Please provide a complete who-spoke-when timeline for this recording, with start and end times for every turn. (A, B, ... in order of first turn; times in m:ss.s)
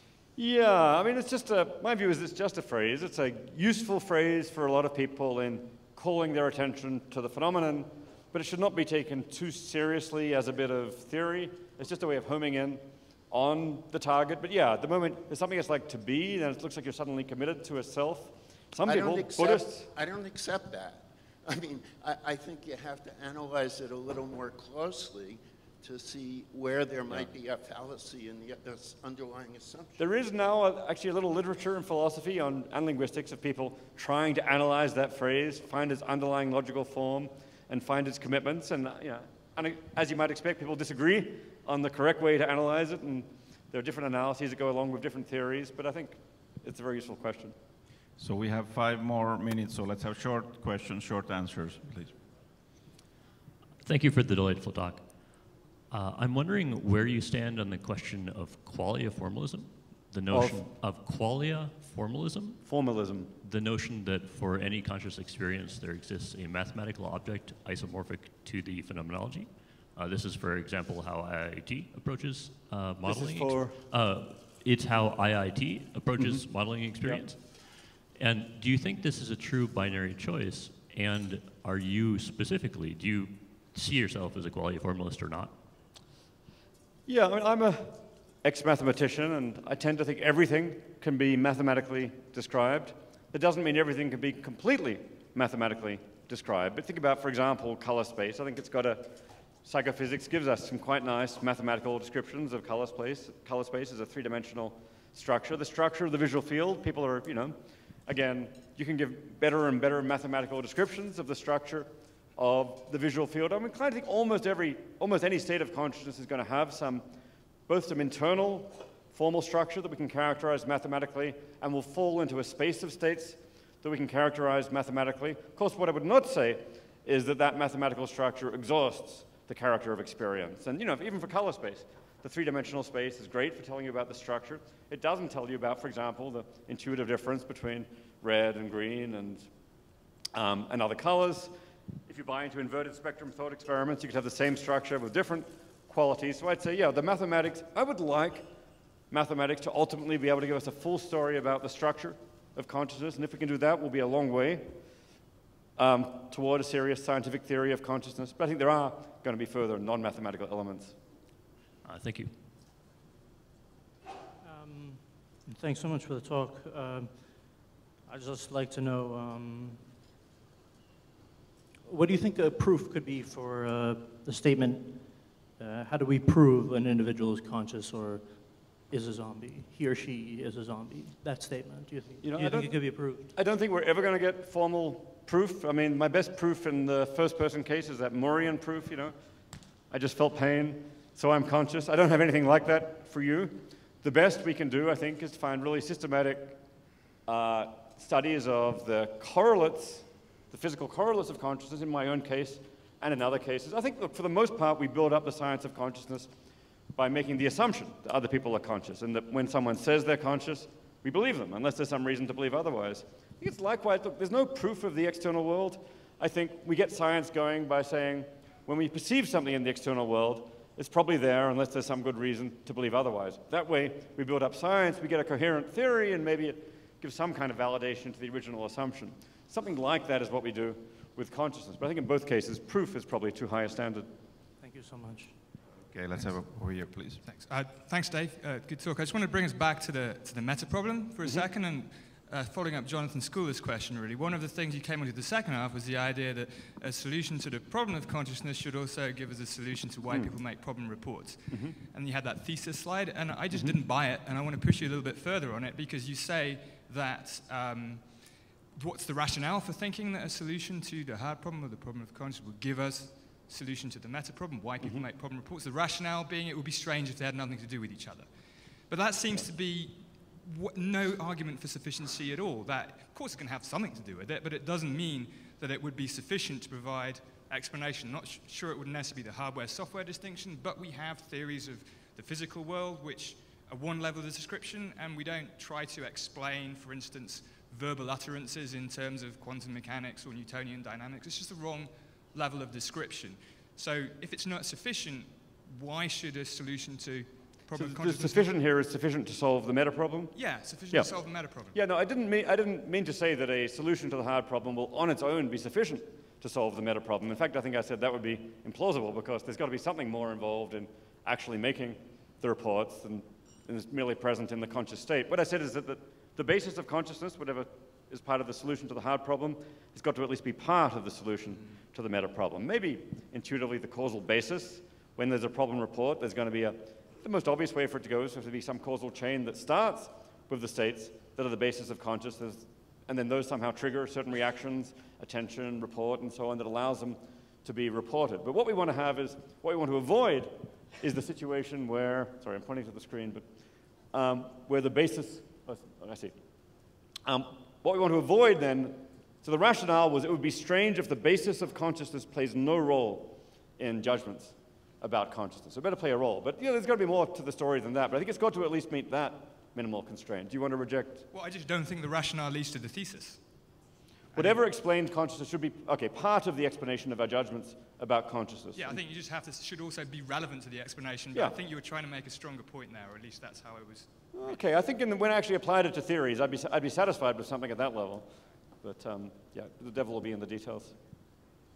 0:00.4-0:19.9 A
0:18.8-0:30.1 B
0:30.0-0:47.5 A
0:48.2-0:52.2 C
0:53.8-0:55.0 D
0:55.9-1:02.6 D
1:00.3-1:00.7 A
1:02.6-1:03.3 A
1:03.4-1:25.5 D
1:13.0-1:13.8 A
1:16.2-1:16.5 A
1:17.0-1:17.3 A
1:27.1-1:39.1 A
1:39.6-1:47.6 A
1:48.1-1:57.0 A
1:57.7-2:19.5 A
2:20.3-2:21.5 A
2:22.1-2:28.4 A
2:29.1-2:34.7 A
2:35.8-2:40.9 A
2:41.8-2:42.3 D
2:44.4-2:49.8 E
2:51.8-3:03.3 E
3:02.2-3:09.1 A
3:09.9-3:16.6 A
3:17.3-3:26.3 A
3:27.0-3:54.1 A
3:54.6-3:55.4 E
3:55.9-3:57.2 C
3:57.2-4:58.5 F
4:10.1-4:10.3 A
4:11.5-4:11.8 A
4:13.5-4:13.8 A
4:57.8-5:43.4 A
5:00.3-5:01.8 F
5:44.1-5:46.3 A
5:47.2-6:01.2 A
6:01.3-6:03.4 F
6:04.3-6:04.6 F
6:04.3-6:09.0 A
6:08.8-6:14.6 F
6:14.3-6:18.3 A
6:18.8-6:20.9 A